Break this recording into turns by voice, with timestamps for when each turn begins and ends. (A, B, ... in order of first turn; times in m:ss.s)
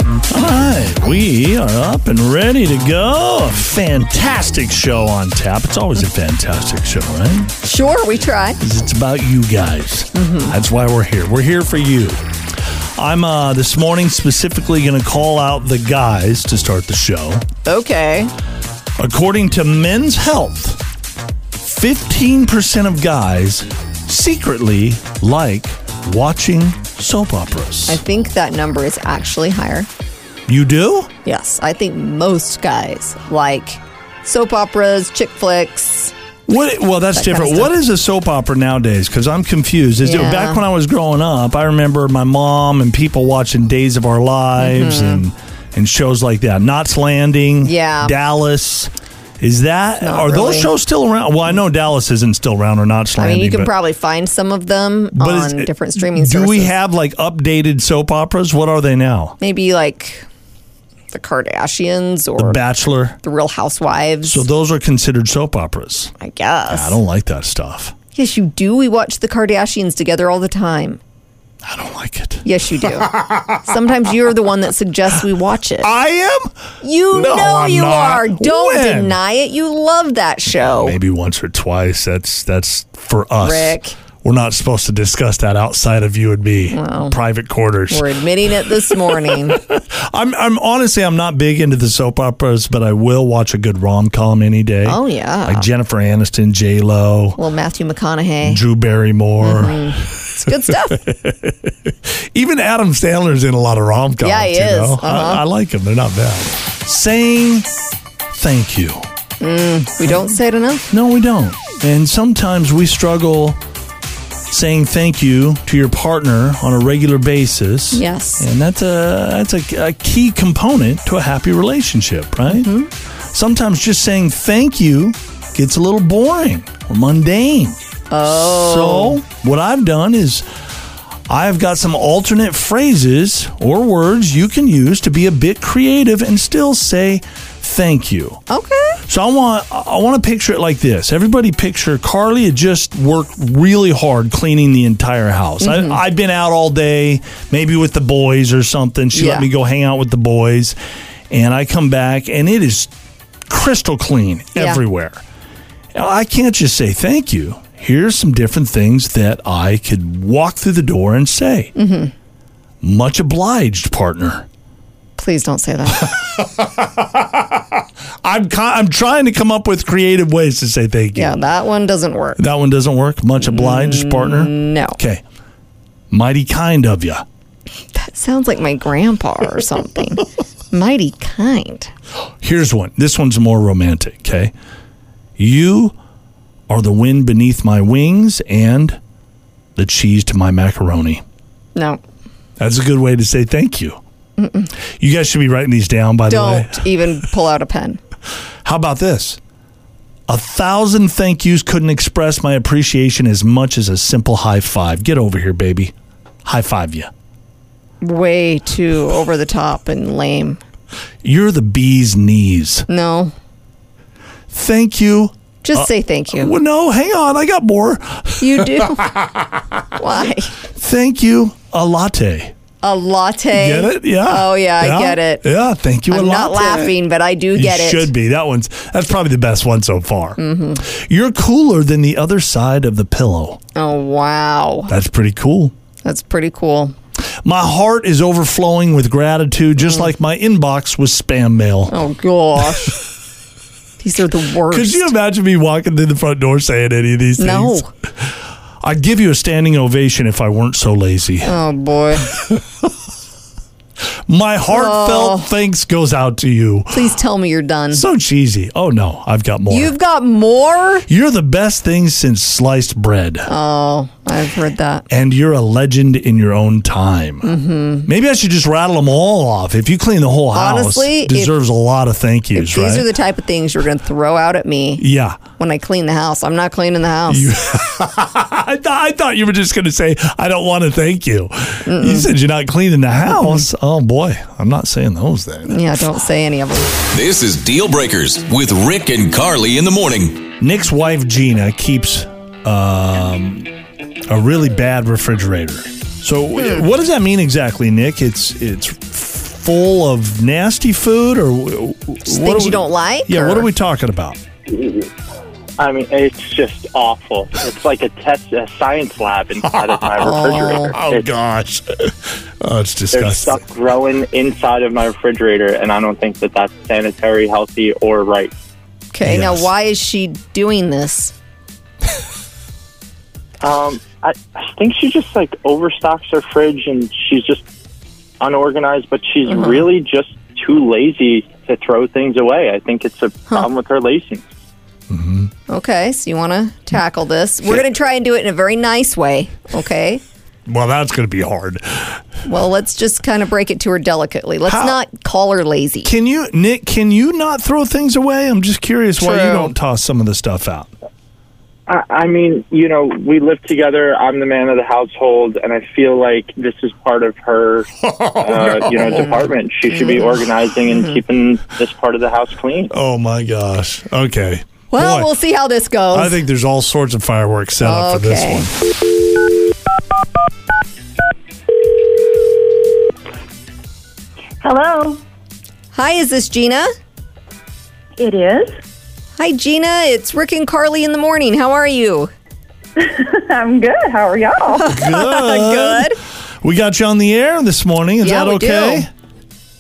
0:00.3-0:07.5 A
0:07.6-0:08.6 B
0:08.6-0:12.2 A
0:10.1-0:10.6 B
0:13.0-0:17.4 A
0:17.7-0:18.3 B
0:19.0-0:20.8 A
0:21.6-0:28.0 A
0:27.9-0:29.9 B
0:30.5-0:31.1 A
0:31.2-0:36.1 B
0:36.5-0:53.7 A
0:37.1-0:37.7 B
0:40.0-0:40.6 B
0:44.6-0:45.2 B
0:47.6-0:48.2 B
0:50.0-0:50.7 B
0:53.2-0:56.7 B
0:55.2-0:59.4 A
0:59.4-1:00.3 B
1:01.1-1:02.6 B
1:02.4-1:03.2 A
1:03.2-1:04.4 B
1:04.2-1:06.1 A
1:06.2-1:07.0 B
1:06.7-1:07.9 A
1:08.2-1:11.0 B
1:11.6-1:13.6 A
1:12.4-1:15.9 B
1:15.8-1:16.5 A
1:16.8-1:21.0 B
1:17.1-1:19.2 A
1:20.6-1:37.4 A
1:23.4-1:24.0 B
1:26.7-1:27.2 B
1:27.9-1:29.6 B
1:34.8-1:35.7 B
1:37.4-1:38.6 B
1:38.4-1:47.7 A
1:39.4-1:41.0 B
1:44.2-1:45.4 B
1:48.3-1:49.1 A
1:49.4-1:50.9 B
1:50.9-1:53.6 A
1:54.5-2:02.7 A
1:57.9-1:58.5 B
2:02.5-2:02.9 B
2:03.3-2:10.5 A
2:08.1-2:09.2 B
2:11.3-2:18.4 A
2:18.5-2:19.0 B
2:19.1-2:30.8 A
2:25.6-2:26.0 B
2:29.1-2:29.5 B
2:31.3-2:32.9 A
2:33.5-2:35.2 A
2:34.6-2:34.8 B
2:35.9-2:41.7 A
2:41.8-2:42.1 B
2:42.8-2:44.5 A
2:45.2-2:46.1 B
2:45.9-2:47.3 A
2:48.2-2:51.4 A
2:51.2-2:52.4 B
2:52.4-2:55.2 A
2:53.4-2:55.0 B
2:56.1-2:57.2 A
2:57.9-3:01.9 B
3:02.4-3:04.5 A
3:05.4-3:05.9 A
3:06.7-3:09.0 A
3:09.8-3:11.2 A
3:11.8-3:12.0 B
3:12.6-3:14.0 A
3:14.4-3:14.7 B
3:15.0-3:16.9 A
3:16.3-3:18.0 B
3:18.6-3:19.4 A
3:20.3-3:25.9 A
3:26.4-3:27.1 A
3:28.0-3:30.6 B
3:31.2-3:32.9 A
3:32.9-3:33.3 B
3:34.5-3:39.0 A
3:35.6-3:36.5 B
3:38.4-3:39.2 B
3:40.0-3:40.5 B
3:40.7-3:42.5 A
3:42.8-3:45.4 B
3:43.5-3:47.0 A
3:46.1-3:48.1 B
3:47.6-3:53.6 A
3:50.4-3:50.8 B
3:53.8-3:54.9 B
3:54.9-3:55.7 A
3:56.0-3:56.9 B
3:57.4-4:02.0 A
3:59.8-4:00.1 B
4:01.9-4:03.0 B
4:04.0-4:05.1 B
4:04.7-4:11.6 A
4:07.4-4:07.9 B
4:11.4-4:12.3 B
4:12.3-4:12.9 A
4:14.3-4:17.1 A
4:14.7-4:15.5 B
4:16.9-4:18.0 B
4:17.9-4:19.9 A
4:19.7-4:21.1 B
4:21.1-4:23.5 A
4:23.5-4:25.0 B
4:25.1-4:27.6 A
4:27.4-4:28.1 B
4:28.1-4:33.1 A
4:30.5-4:31.6 B
4:32.5-4:35.0 B
4:35.0-4:35.4 A
4:35.6-4:37.5 B
4:37.3-4:46.0 A
4:41.9-4:42.3 B
4:43.4-4:43.6 B
4:45.7-4:47.0 B
4:47.1-4:50.5 C
4:50.6-4:53.7 A
4:54.3-5:04.4 A
4:56.6-4:56.8 B
5:02.2-5:03.7 B
5:04.7-5:05.1 D
5:05.8-5:11.3 D
5:09.6-5:13.6 A
5:10.2-5:11.0 B
5:13.1-5:18.5 D
5:19.1-5:21.3 B
5:19.2-5:19.7 A
5:23.6-5:27.6 D
5:28.4-5:34.4 D
5:29.5-5:29.9 B
5:35.1-5:35.5 A
5:35.7-5:40.2 B
5:40.7-5:42.2 A
5:42.4-5:46.1 B
5:44.7-5:45.0 A
5:46.0-5:50.9 A
5:49.2-5:49.7 B
5:51.9-6:02.9 D
5:58.1-5:59.1 A
5:59.1-6:01.2 B
6:02.9-6:05.3 A
6:04.9-6:06.4 B
6:06.1-6:08.7 A
6:07.8-6:08.7 B
6:14.6-6:15.2 E
6:15.9-6:16.9 B
6:18.2-6:18.8 E
6:19.4-6:22.3 B
6:23.0-6:24.9 E
6:24.7-6:26.2 B
6:24.9-6:29.1 A
6:28.2-6:29.1 B